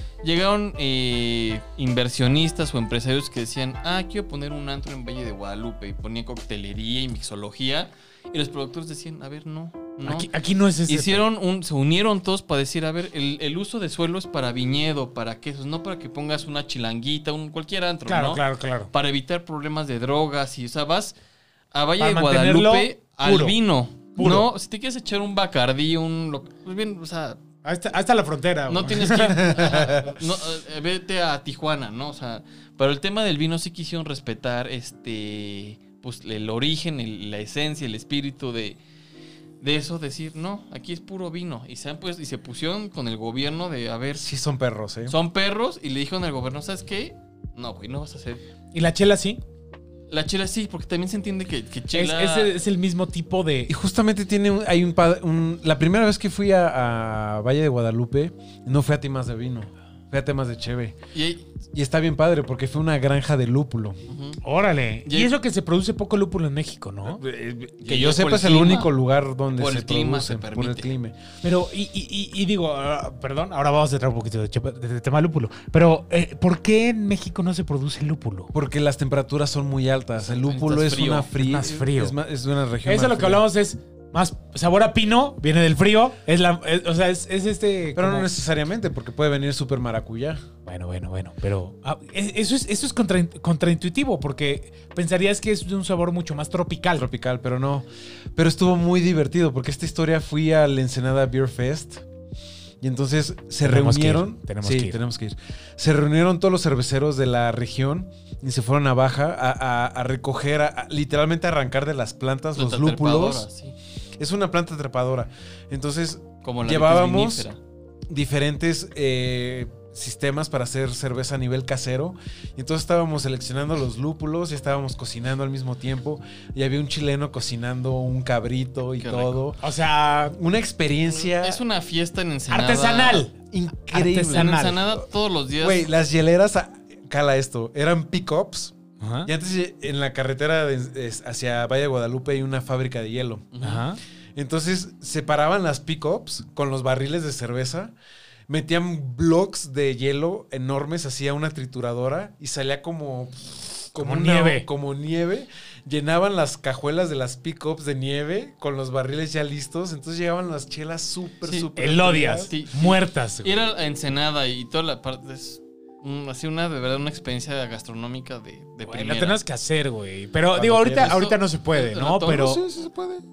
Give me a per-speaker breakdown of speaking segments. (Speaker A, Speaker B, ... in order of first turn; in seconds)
Speaker A: 0.2-10.3, 10.9-21.1, 21.7-27.4, 28.7-38.8, 39.6-44.3, 45.1-48.4, 50.1-52.5, 61.1-61.5, 64.1-64.4, 65.1-65.3, 67.8-68.9, 69.6-70.9, 80.2-81.8, 112.5-113.8, 116.4-117.6, 129.0-129.4, 131.2-133.3, 134.0-135.9, 143.5-143.8, 161.4-161.7, 162.5-169.4, 171.0-172.6
Speaker B: 10.1-11.2, 18.1-18.9, 22.0-23.6, 24.2-24.5, 27.6-29.6, 48.7-49.4, 51.9-53.7, 64.4-67.2, 71.4-78.5, 81.4-82.2, 82.8-88.3, 90.7-97.1, 103.6-105.0, 129.6-130.4, 132.5-133.3, 133.9-134.8, 139.0-139.3, 143.6-144.0, 153.9-154.7, 161.8-163.5, 168.8-172.6
Speaker C: 29.4-30.1, 44.1-45.1, 53.7-61.0, 61.7-64.0, 67.1-71.2, 78.5-83.4, 88.0-90.4, 97.0-102.0, 102.8-113.5, 114.2-117.5, 118.1-129.6, 130.3-131.6, 133.5-135.0, 135.6-143.5, 144.3-147.9, 148.5-162.5, 170.5-171.2, 172.3-173.2